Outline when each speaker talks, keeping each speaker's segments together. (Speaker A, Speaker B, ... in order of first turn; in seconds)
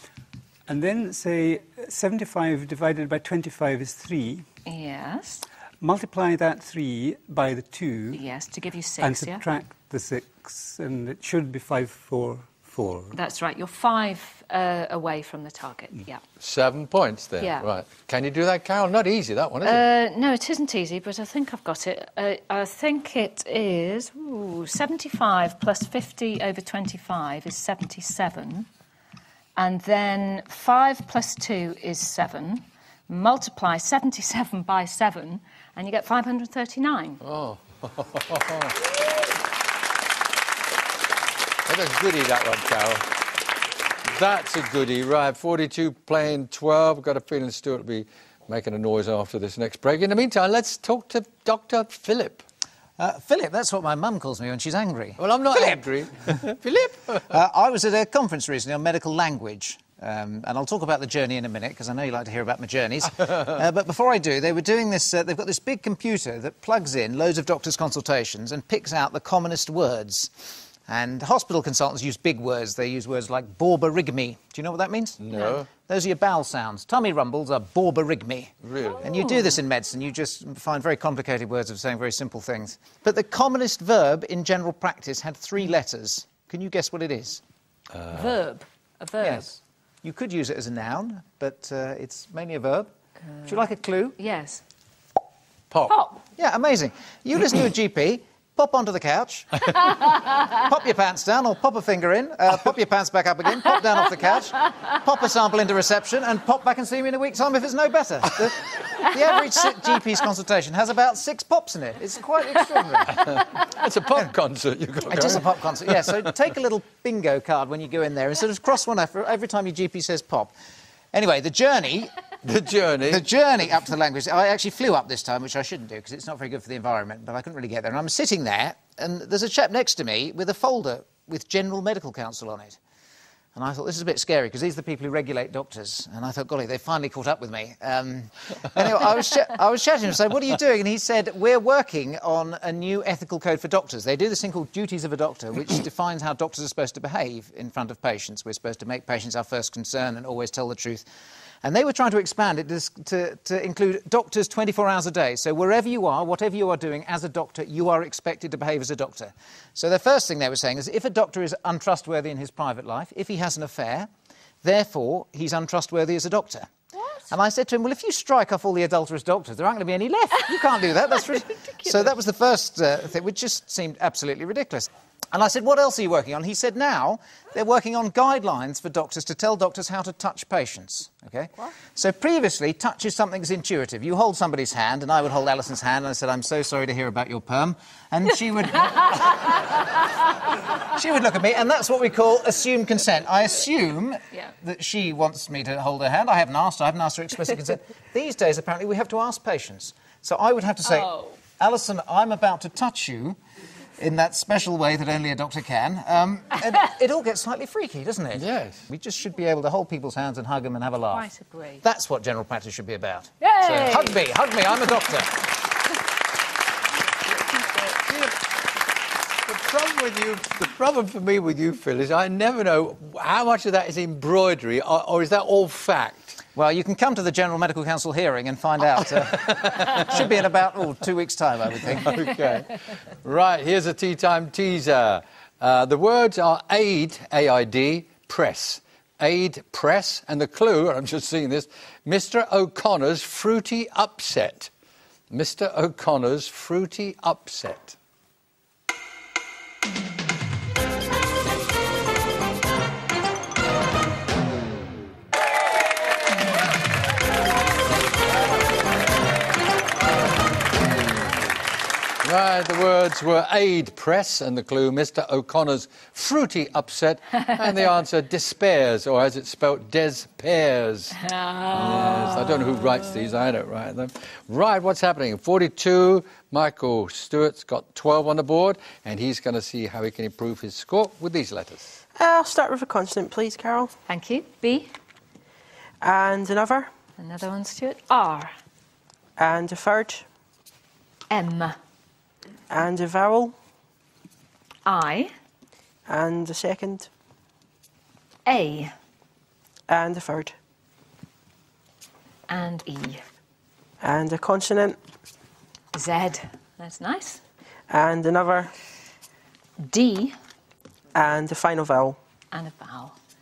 Speaker A: 0.7-4.5, 5.8-8.2, 9.0-13.1
Speaker B: 4.7-5.5, 8.1-9.4, 13.1-16.2, 17.4-17.6, 19.6-28.7, 29.6-37.2, 88.1-89.4, 94.2-94.6, 95.9-96.2, 200.9-201.3, 211.1-211.8, 213.4-214.2, 271.2-272.7, 284.1-284.9, 287.2-288.5, 291.3-291.7, 294.8-295.3, 298.4-298.9, 302.5-303.2, 305.9-307.4, 309.8-310.3, 312.5-313.1
Speaker C: 16.4-19.9, 37.2-38.7, 41.6-43.0, 44.1-52.4, 55.2-57.3, 75.2-75.7, 78.6-79.1, 87.9-88.3, 113.1-116.2, 122.4-123.2, 208.3-208.8, 217.8-218.3, 219.4-226.4, 229.1-230.2, 231.8-244.7, 245.3-247.9, 262.2-271.2, 271.7-281.9
Speaker D: 53.0-55.9, 57.2-87.4, 89.2-92.9, 93.4-94.2, 96.4-113.2, 115.1-120.5, 121.1-122.2, 123.1-132.8, 133.5-151.0, 151.6-164.1, 164.6-166.7, 167.3-189.6, 190.8-203.4, 204.0-211.3, 211.8-215.3, 226.5-232.1
Speaker E: 282.2-283.9, 286.0-286.9, 289.4-290.2, 292.7-293.5, 296.1-297.1, 299.9-300.5, 304.0-305.0, 307.9-308.7, 311.1-312.2